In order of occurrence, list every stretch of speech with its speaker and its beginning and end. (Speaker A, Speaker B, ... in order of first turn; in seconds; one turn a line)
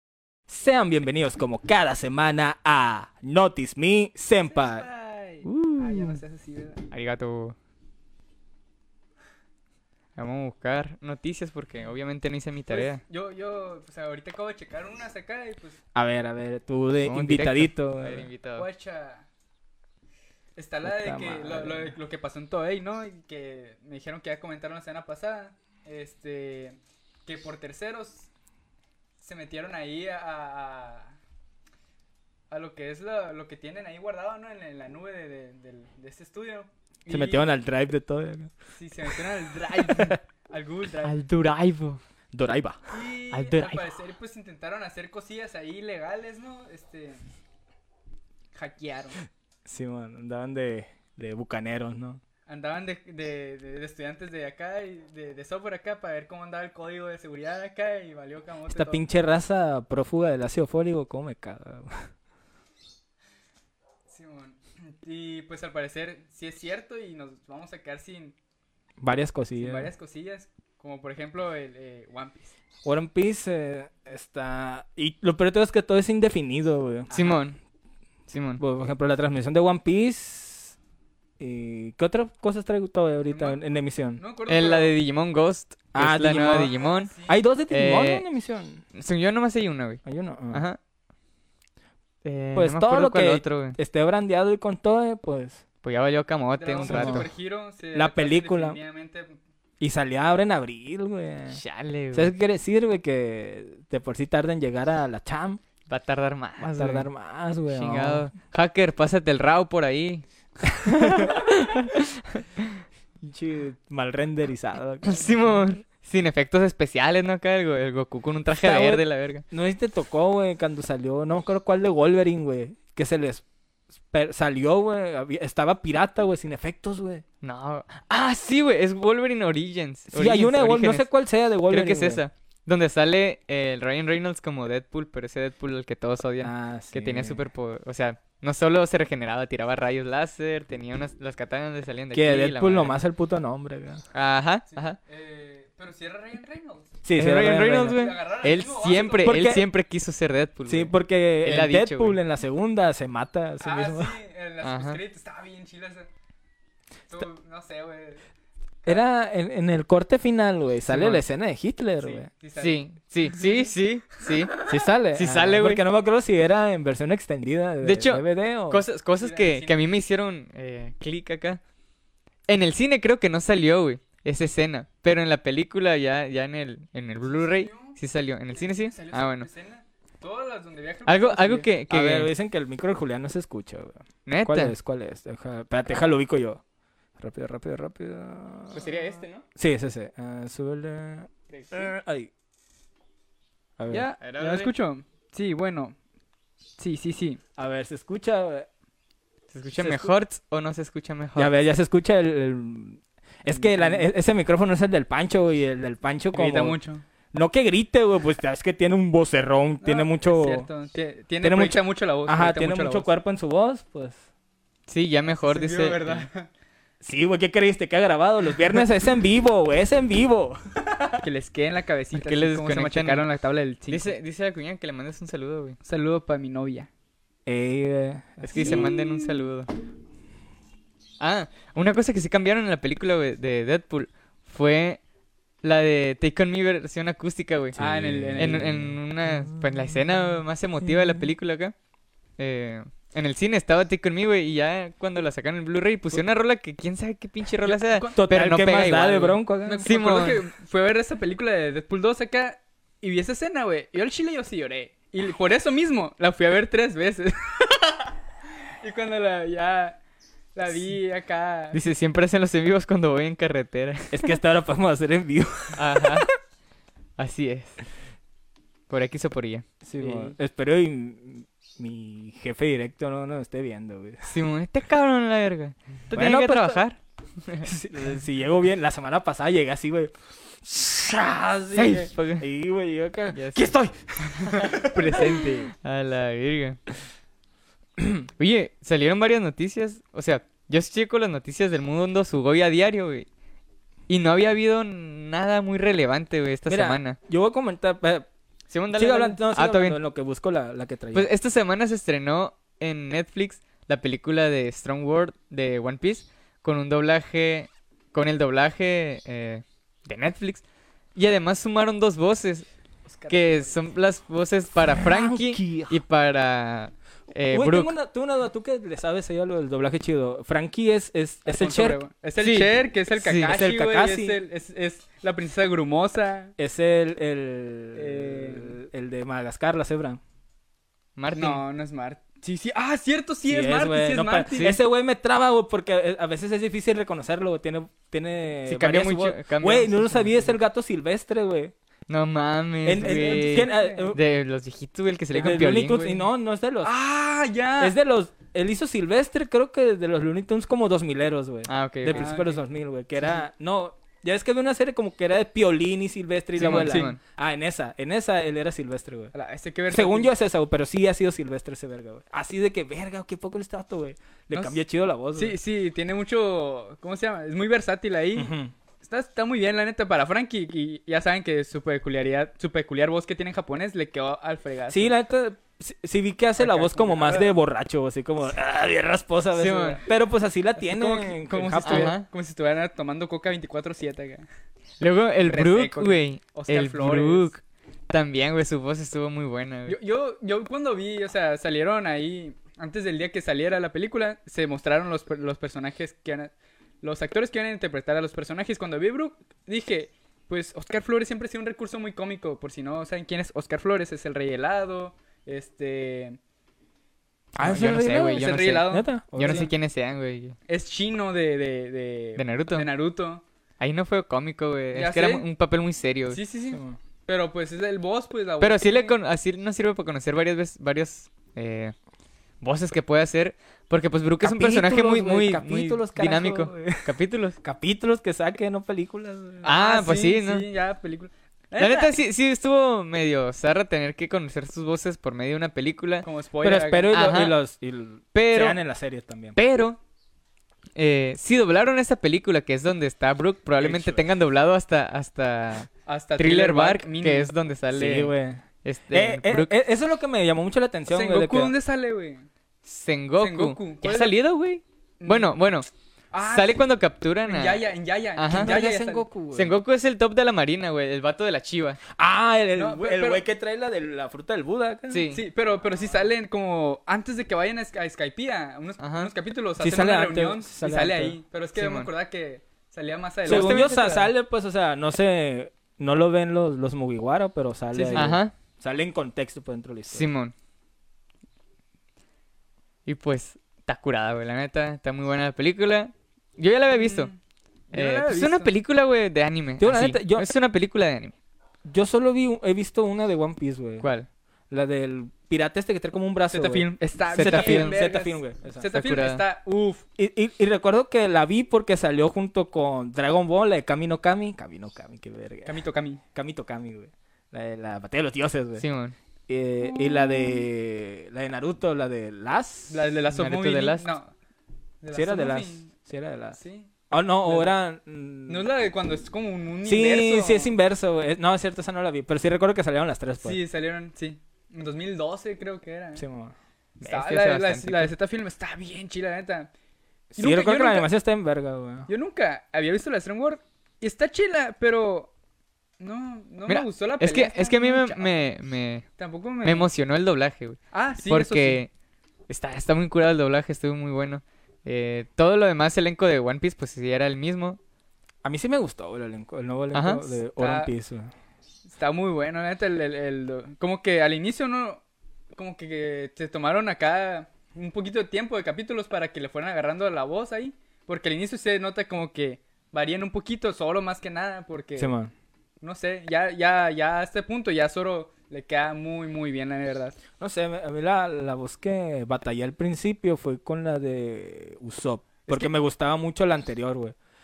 Speaker A: 0.5-4.9
Speaker B: 4.5-6.8
Speaker C: 5.4-6.2
Speaker C: 6.9-7.5
Speaker C: 10.2-13.0
Speaker B: 12.7-15.8
Speaker A: 15.9-18.3
Speaker C: 17.0-18.7
Speaker B: 18.5-19.2
Speaker B: 20.6-28.3
Speaker A: 20.8-21.9
Speaker B: 29.2-31.1
Speaker B: 32.5-37.4
Speaker A: 37.1-38.5
Speaker B: 38.7-41.2
Speaker A: 39.7-40.2
Speaker C: 41.0-42.0
Speaker A: 42.3-43.0
Speaker B: 42.9-47.2
Speaker C: 43.3-43.9
Speaker B: 48.5-49.2
Speaker A: 49.6-52.2
Speaker B: 52.5-59.0
Speaker A: 58.7-62.1
Speaker B: 64.1-68.3
Speaker A: 69.0-69.9
Speaker B: 69.6-72.5
Speaker A: 72.8-77.4
Speaker C: 77.1-77.6
Speaker C: 78.3-78.6
Speaker A: 78.6-80.8
Speaker A: 81.4-84.2
Speaker B: 83.2-83.6
Speaker B: 84.1-84.9
Speaker C: 84.5-87.1
Speaker A: 85.9-86.7
Speaker B: 86.4-87.4
Speaker A: 87.3-88.8
Speaker C: 87.7-88.2
Speaker C: 88.9-90.8
Speaker A: 90.0-90.6
Speaker C: 92.2-93.8
Speaker A: 92.5-95.6
Speaker C: 95.8-97.2
Speaker B: 96.6-99.3
Speaker A: 96.8-97.3
Speaker A: 97.9-98.8
Speaker A: 99.8-101.6
Speaker C: 101.5-102.3
Speaker A: 102.1-105.6
Speaker C: 105.9-107.1
Speaker A: 106.6-108.3
Speaker C: 107.7-110.2
Speaker A: 110.8-111.5
Speaker C: 110.8-112.8
Speaker A: 113.2-115.5
Speaker C: 115.0-119.4
Speaker A: 118.6-123.4
Speaker A: 124.1-127.2
Speaker C: 127.4-131.1
Speaker A: 130.1-132.2
Speaker C: 131.7-143.0
Speaker A: 136.4-137.4
Speaker A: 142.1-144.0
Speaker C: 144.1-145.0
Speaker B: 144.7-147.0
Speaker A: 147.0-148.0
Speaker C: 147.1-152.2
Speaker B: 147.6-149.5
Speaker A: 149.2-149.7
Speaker A: 150.7-154.2
Speaker B: 153.6-156.1
Speaker C: 154.6-155.0
Speaker B: 157.1-158.2
Speaker A: 158.8-162.3
Speaker C: 160.9-161.2
Speaker B: 162.0-163.7
Speaker C: 162.6-165.8
Speaker A: 164.7-168.8
Speaker C: 167.8-171.6
Speaker B: 169.2-169.8
Speaker C: 172.5-179.5
Speaker B: 177.2-178.0
Speaker B: 178.5-181.7
Speaker C: 181.1-182.3
Speaker A: 181.9-186.6
Speaker C: 184.2-184.7
Speaker A: 187.2-188.9
Speaker B: 188.7-189.4
Speaker A: 189.6-192.3
Speaker B: 191.5-191.9
Speaker A: 193.8-194.1
Speaker B: 193.9-195.9
Speaker C: 194.2-194.7
Speaker B: 196.8-197.4
Speaker A: 197.6-198.7
Speaker C: 199.5-201.6
Speaker A: 199.7-200.1
Speaker A: 201.3-206.8
Speaker B: 203.5-204.1
Speaker B: 206.3-207.0
Speaker A: 207.3-210.7
Speaker B: 209.8-213.1
Speaker A: 211.4-214.2
Speaker C: 214.9-216.3
Speaker B: 215.4-216.5
Speaker A: 217.0-221.2
Speaker B: 221.2-224.1
Speaker C: 222.1-223.2
Speaker C: 223.9-225.8
Speaker B: 225.8-226.9
Speaker A: 227.4-228.9
Speaker C: 228.4-229.7
Speaker B: 228.5-228.9
Speaker C: 231.2-235.0
Speaker C: 235.6-237.8
Speaker A: 237.8-239.0
Speaker B: 237.8-238.7
Speaker C: 238.3-241.7
Speaker C: 242.4-250.5
Speaker B: 247.7-248.2
Speaker A: 248.1-249.9
Speaker B: 249.6-258.1
Speaker B: 258.8-260.0
Speaker B: 260.5-261.8
Speaker C: 261.7-264.3
Speaker A: 264.1-266.3
Speaker C: 265.7-266.3
Speaker C: 267.2-267.8
Speaker C: 268.9-269.6
Speaker A: 269.8-274.3
Speaker B: 270.0-270.4
Speaker C: 274.2-277.7
Speaker A: 276.1-276.8
Speaker A: 277.6-285.6
Speaker C: 281.7-282.4
Speaker C: 283.3-283.6
Speaker C: 284.5-286.8
Speaker A: 288.0-288.2
Speaker C: 288.4-293.3
Speaker C: 294.1-297.2
Speaker A: 296.7-298.3
Speaker C: 298.7-300.0
Speaker A: 298.9-301.3
Speaker C: 301.1-310.6
Speaker C: 311.1-312.7
Speaker B: 313.1-313.8
Speaker C: 313.3-317.9
Speaker A: 314.9-316.0
Speaker A: 317.5-322.0
Speaker B: 321.4-326.5
Speaker C: 322.4-323.5
Speaker A: 323.4-324.4
Speaker A: 326.6-330.2
Speaker B: 327.9-328.8
Speaker C: 331.1-331.6
Speaker B: 331.4-334.8
Speaker A: 333.4-341.7
Speaker C: 338.6-340.5
Speaker C: 342.1-346.1
Speaker A: 342.8-344.2
Speaker B: 342.9-344.1
Speaker B: 345.3-346.1
Speaker A: 345.4-346.9
Speaker B: 346.8-347.9
Speaker A: 347.8-359.3
Speaker C: 351.7-352.3
Speaker B: 352.0-352.6
Speaker C: 356.6-357.2
Speaker B: 356.6-357.1
Speaker B: 359.3-360.3
Speaker A: 359.9-365.6
Speaker B: 365.3-375.1
Speaker A: 368.3-368.7
Speaker A: 374.9-382.1
Speaker B: 376.6-377.6
Speaker C: 379.5-380.0
Speaker B: 379.7-380.0
Speaker B: 380.8-384.4
Speaker C: 381.8-382.2
Speaker C: 385.0-389.9
Speaker B: 385.4-387.5
Speaker B: 389.9-406.4
Speaker A: 407.5-409.7
Speaker C: 407.6-410.6
Speaker B: 408.2-409.7
Speaker B: 410.7-413.4
Speaker C: 412.4-412.9
Speaker C: 413.8-416.4
Speaker B: 414.9-415.5
Speaker B: 416.3-419.1
Speaker A: 416.7-417.0
Speaker C: 418.6-421.9
Speaker C: 422.6-427.6
Speaker A: 424.4-429.6
Speaker C: 429.6-430.6
Speaker B: 429.6-432.1
Speaker C: 431.8-436.2
Speaker B: 436.2-437.3
Speaker A: 436.6-439.6
Speaker C: 437.1-437.6
Speaker C: 438.3-438.8
Speaker C: 439.6-440.0
Speaker C: 440.9-448.3
Speaker A: 443.8-444.3
Speaker B: 446.1-447.5
Speaker A: 447.9-451.7
Speaker C: 448.8-449.8
Speaker B: 451.1-452.5
Speaker C: 452.9-455.9
Speaker B: 453.4-454.4
Speaker B: 455.2-455.5
Speaker B: 456.3-456.8
Speaker C: 456.4-458.7
Speaker B: 457.4-459.2
Speaker A: 458.5-459.8
Speaker C: 459.5-462.0
Speaker A: 462.1-465.3
Speaker B: 462.7-463.4
Speaker C: 465.1-465.4
Speaker B: 465.3-474.1
Speaker C: 469.0-469.3
Speaker A: 469.8-471.4
Speaker C: 471.8-472.1
Speaker C: 473.4-474.3
Speaker A: 473.4-480.3
Speaker B: 477.9-478.4
Speaker C: 478.1-478.5
Speaker C: 480.1-480.5
Speaker C: 483.1-487.3
Speaker B: 486.9-487.4
Speaker B: 487.9-488.7
Speaker C: 487.9-491.3
Speaker A: 489.8-490.5
Speaker A: 491.8-494.1
Speaker C: 494.0-494.3
Speaker A: 494.7-498.9
Speaker B: 496.5-500.0
Speaker C: 497.3-498.0
Speaker C: 498.9-499.4
Speaker A: 500.2-505.8
Speaker B: 505.6-506.2
Speaker A: 506.3-508.8
Speaker C: 508.8-509.1
Speaker A: 509.5-513.0
Speaker B: 509.8-510.7
Speaker B: 512.9-514.3
Speaker C: 513.3-514.1
Speaker B: 515.0-515.9
Speaker A: 515.1-516.6
Speaker B: 516.5-517.7
Speaker A: 517.1-518.7
Speaker B: 518.5-520.7
Speaker A: 519.8-523.6
Speaker B: 523.4-526.2
Speaker A: 526.1-526.5
Speaker C: 527.0-528.1
Speaker B: 527.0-529.7
Speaker A: 530.3-532.1
Speaker B: 530.3-531.1
Speaker B: 532.1-535.3
Speaker B: 536.0-538.3
Speaker C: 536.7-539.0
Speaker B: 539.2-539.9
Speaker C: 539.6-541.9
Speaker B: 540.9-541.8
Speaker C: 542.5-547.8
Speaker A: 548.4-551.3
Speaker C: 549.9-550.4
Speaker B: 550.6-550.9
Speaker B: 551.9-555.0
Speaker B: 555.5-565.1
Speaker A: 565.0-565.3
Speaker B: 565.8-570.2
Speaker A: 570.4-577.1